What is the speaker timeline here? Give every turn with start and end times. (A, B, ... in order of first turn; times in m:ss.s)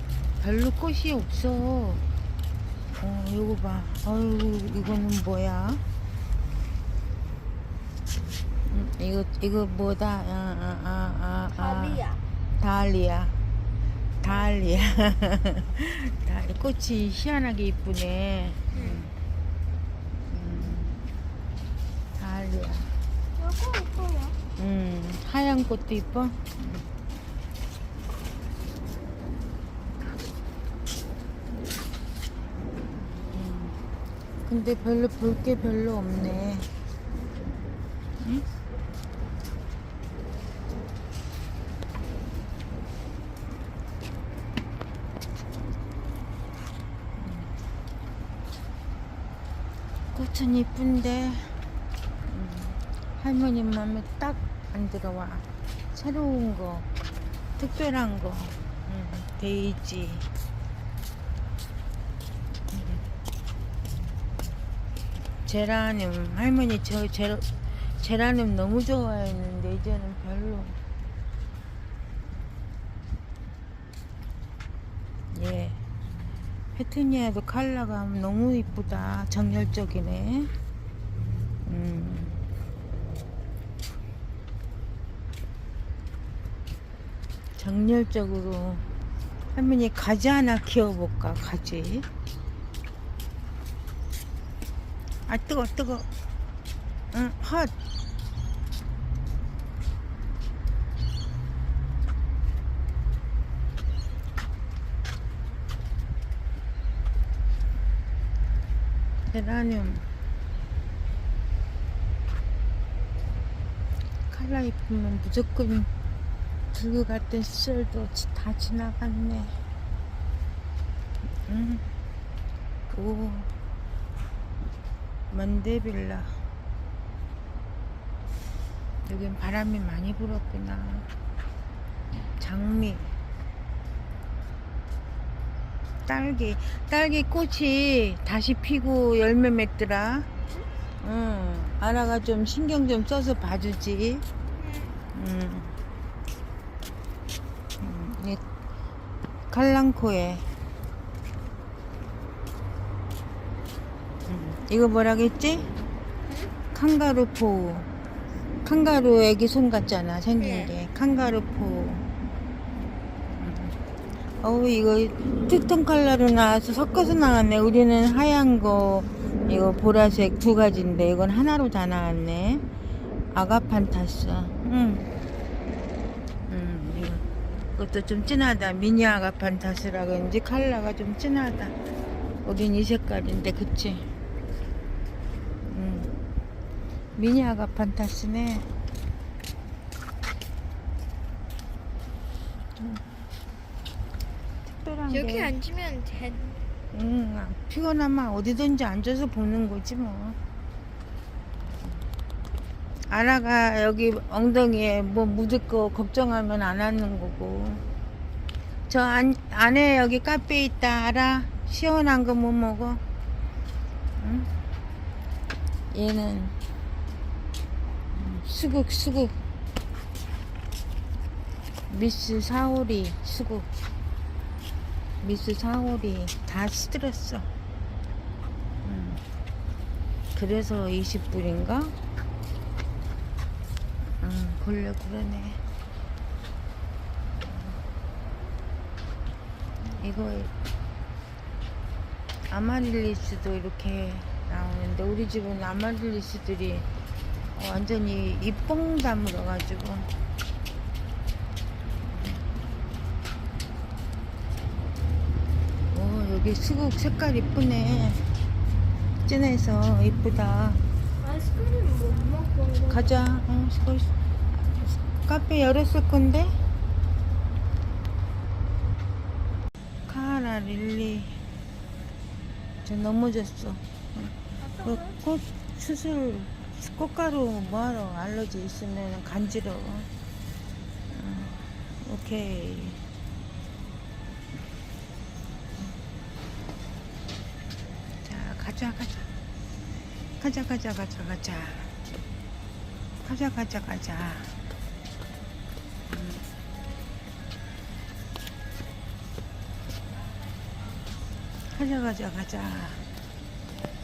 0:00.4-0:02.0 A
0:03.0-0:05.8 A
0:08.6-0:12.0 A
0:11.5-0:12.2 B
0:12.6-0:13.4 A
0:14.2-0:19.1 A
0:18.7-0:19.0 B
0:20.3-0:21.0 A
0:22.2-0:22.9 A
0:23.4-0:24.4 B
0:24.6-0:26.9 A
0:33.2-0:33.8 A
0:34.4-0:36.7 A
0:38.2-0:38.4 A
0:47.2-0:47.5 A
0:50.1-0:51.7 A
0:52.2-0:56.9 A
0:57.6-1:00.3 A
1:02.7-1:03.0 A
1:05.4-1:10.8 A
1:15.3-1:15.8 A
1:16.7-1:20.5 A
1:21.6-1:22.4 A
1:27.6-1:28.8 A
1:29.5-1:32.1 A
1:35.3-1:36.1 A
1:37.1-1:37.7 A
1:49.3-1:50.1 A
1:54.3-1:55.9 A
1:56.7-1:59.6 A
2:01.5-2:01.9 A
2:02.9-2:03.5 A
2:05.3-2:06.4 A
2:09.0-2:11.1 A
2:12.4-2:13.1 A
2:16.0-2:20.3 A
2:21.0-2:24.2 A
2:24.5-2:24.9 B
2:25.1-2:25.8 A
2:27.8-2:28.4 A
2:29.5-2:30.5 A
2:34.3-2:35.7 A
2:36.3-2:36.5 B
2:36.7-2:37.9 A
2:38.6-2:42.0 A
2:40.4-2:40.7 B
2:43.3-2:43.8 A
2:44.4-2:52.6 A
2:53.3-2:55.1 A
2:56.5-2:57.2 A
2:57.7-3:01.8 A
3:02.4-3:04.1 A
3:05.7-3:06.1 A
3:07.2-3:08.7 A
3:12.8-3:13.0 A
3:14.6-3:15.5 A
3:15.1-3:16.6 B
3:16.9-3:20.4 A
3:23.1-3:27.8 A
3:28.9-3:33.0 A
3:34.2-3:34.5 A
3:35.9-3:36.6 A
3:38.1-3:39.3 A
3:41.9-3:43.7 A
3:45.2-3:47.5 A
3:48.8-3:49.2 A
3:50.3-3:51.9 A
3:54.2-3:55.6 A
3:57.5-3:57.8 A
3:59.8-4:00.5 A
4:02.5-4:06.9 A
4:07.5-4:10.1 A
4:15.9-4:18.3 A
4:19.2-4:20.8 A
4:21.2-4:23.0 B
4:22.9-4:24.1 A
4:24.9-4:26.5 A
4:30.1-4:31.4 A
4:32.8-4:40.1 A
4:34.6-4:35.2 B
4:41.1-4:43.0 A
4:48.2-4:49.3 A
4:50.4-4:51.9 A
4:53.2-4:54.6 A
4:56.1-4:56.4 A
5:01.7-5:03.0 A